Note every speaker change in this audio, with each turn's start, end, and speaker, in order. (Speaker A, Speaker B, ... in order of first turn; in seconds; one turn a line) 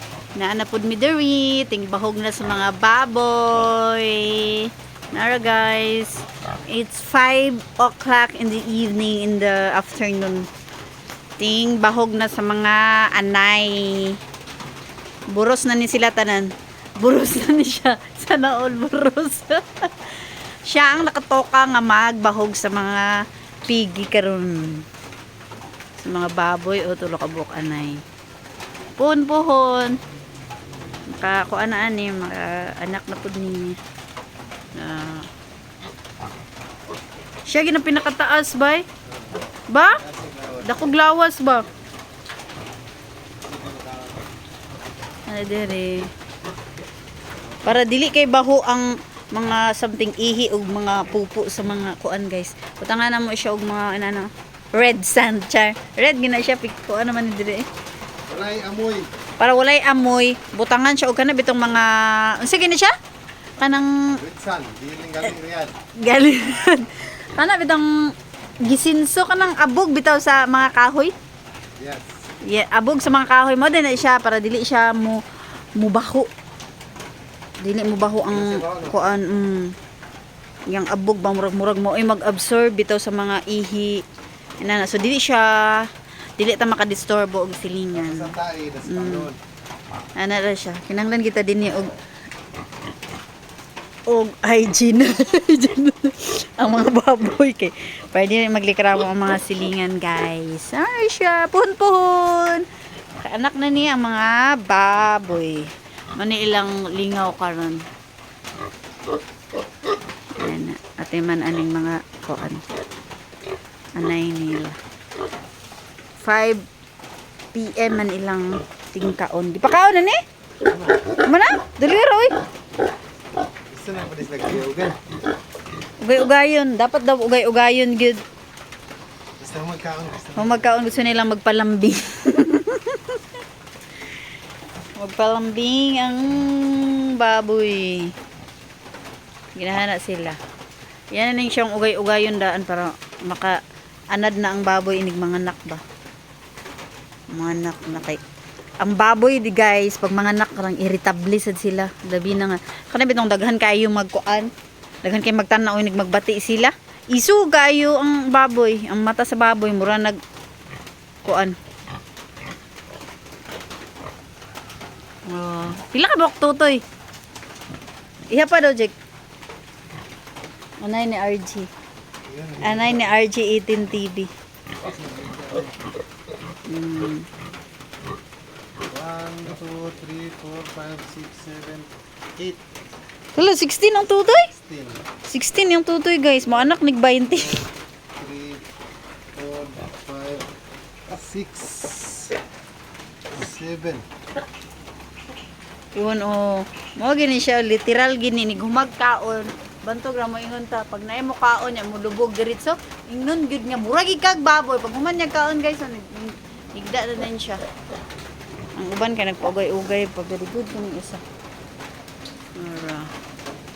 Speaker A: 0.3-10.5
Speaker A: 11.4-14.2
Speaker A: 15.3-19.9
Speaker A: 20.7-24.9
Speaker A: 26.0-28.0
Speaker A: 29.0-30.0
Speaker A: 31.1-33.8
Speaker A: 34.8-35.3
Speaker A: 37.5-38.9
Speaker A: 39.7-40.0
Speaker B: 40.0-40.9
Speaker A: 40.6-41.7
Speaker B: 43.4-44.3
Speaker A: 45.3-46.1
Speaker A: 47.6-57.6
Speaker B: 58.3-59.1
Speaker A: 59.4-62.9
Speaker A: 63.6-64.2
Speaker B: 64.2-65.7
Speaker A: 66.0-68.1
Speaker A: 68.7-71.1
Speaker B: 71.8-72.1
Speaker A: 72.4-75.2
Speaker A: 75.8-76.3
Speaker A: 77.6-79.8
Speaker B: 78.3-79.0
Speaker A: 80.7-84.0
Speaker A: 84.6-88.3
Speaker B: 87.9-89.4
Speaker A: 88.9-89.3
Speaker A: 90.2-91.9
Speaker A: 94.1-102.7
Speaker A: 103.2-107.8
Speaker A: 110.4-112.6
Speaker A: 114.0-114.8
Speaker A: 116.2-116.6
Speaker A: 117.5-120.2
Speaker B: 120.7-121.0
Speaker A: 121.2-122.3
Speaker B: 123.7-125.0
Speaker A: 126.0-128.2
Speaker B: 129.4-131.1
Speaker A: 130.4-133.2
Speaker A: 135.0-138.1
Speaker A: 139.6-140.4
Speaker A: 141.1-143.6
Speaker A: 144.1-145.8
Speaker A: 147.3-148.2
Speaker A: 148.8-154.5
Speaker A: 155.0-160.2
Speaker A: 161.2-161.6
Speaker A: 165.3-166.8
Speaker A: 168.3-168.9
Speaker A: 170.8-171.7
Speaker B: 172.3-173.2
Speaker A: 172.6-174.3
Speaker B: 174.8-175.8
Speaker A: 176.7-177.3
Speaker B: 178.9-182.6
Speaker A: 183.3-184.5
Speaker B: 184.5-185.0
Speaker A: 185.3-187.6
Speaker B: 187.3-188.7
Speaker B: 189.3-190.5
Speaker B: 191.1-192.3
Speaker B: 193.3-194.1
Speaker A: 196.0-207.6
Speaker A: 208.8-211.2
Speaker A: 212.6-213.1